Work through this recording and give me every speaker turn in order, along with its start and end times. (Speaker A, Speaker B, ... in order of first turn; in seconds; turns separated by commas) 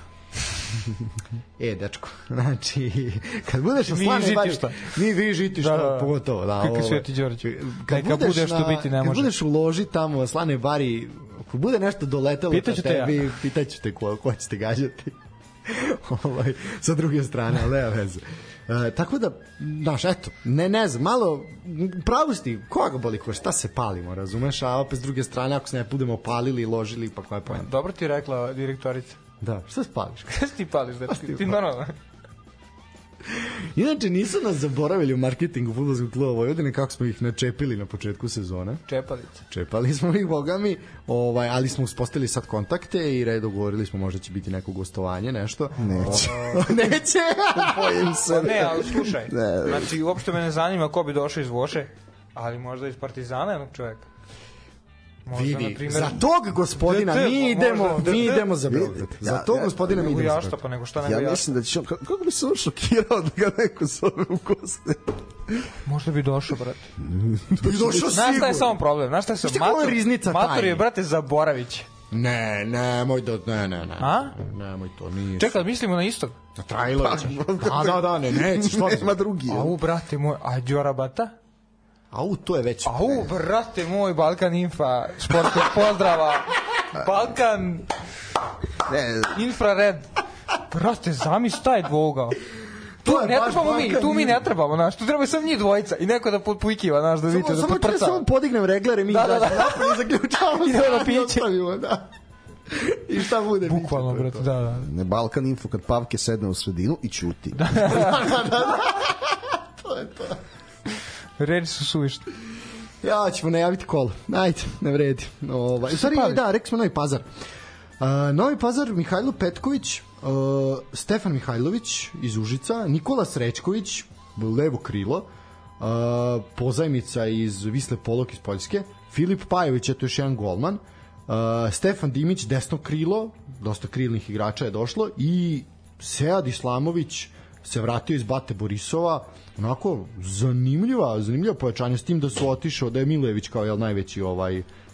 Speaker A: 1.6-27.7, Speaker B: 3.8-4.9, Speaker B: 5.6-9.3, Speaker B: 12.5-13.3, Speaker B: 27.5-29.2, Speaker A: 29.4-30.3, Speaker B: 30.3-31.9, Speaker A: 31.1-31.5, Speaker A: 33.2-38.8, Speaker B: 38.9-39.4, Speaker A: 39.5-48.2, Speaker C: 45.8-46.8, Speaker B: 45.9-46.6, Speaker C: 47.5-49.9, Speaker B: 48.3-54.1, Speaker B: 55.2-56.2, Speaker A: 55.3-60.6, Speaker B: 56.8-58.5, Speaker C: 58.7-59.9, Speaker B: 59.8-61.5, Speaker C: 61.0-65.6, Speaker B: 65.8-66.9, Speaker C: 67.0-68.4, Speaker A: 67.6-68.8, Speaker B: 68.1-71.9, Speaker A: 69.4-70.8, Speaker A: 72.1-75.6, Speaker B: 74.0-74.3, Speaker B: 75.4-76.3, Speaker A: 76.5-79.2, Speaker C: 77.0-79.8, Speaker B: 79.5-81.3, Speaker A: 82.1-83.3, Speaker B: 82.8-87.9, Speaker C: 88.8-89.3, Speaker B: 89.3-90.1, Speaker B: 90.7-92.4, Speaker A: 93.0-94.4, Speaker B: 93.0-98.2, Speaker A: 97.3-102.1, Speaker B: 99.1-100.0, Speaker B: 100.5-101.5, Speaker A: 102.7-104.5, Speaker B: 103.6-104.9, Speaker C: 104.8-107.8, Speaker B: 107.6-108.2, Speaker A: 107.8-110.4, Speaker B: 111.4-112.3, Speaker A: 113.0-117.2, Speaker B: 115.9-116.4, Speaker A: 118.0-125.2, Speaker A: 125.8-144.7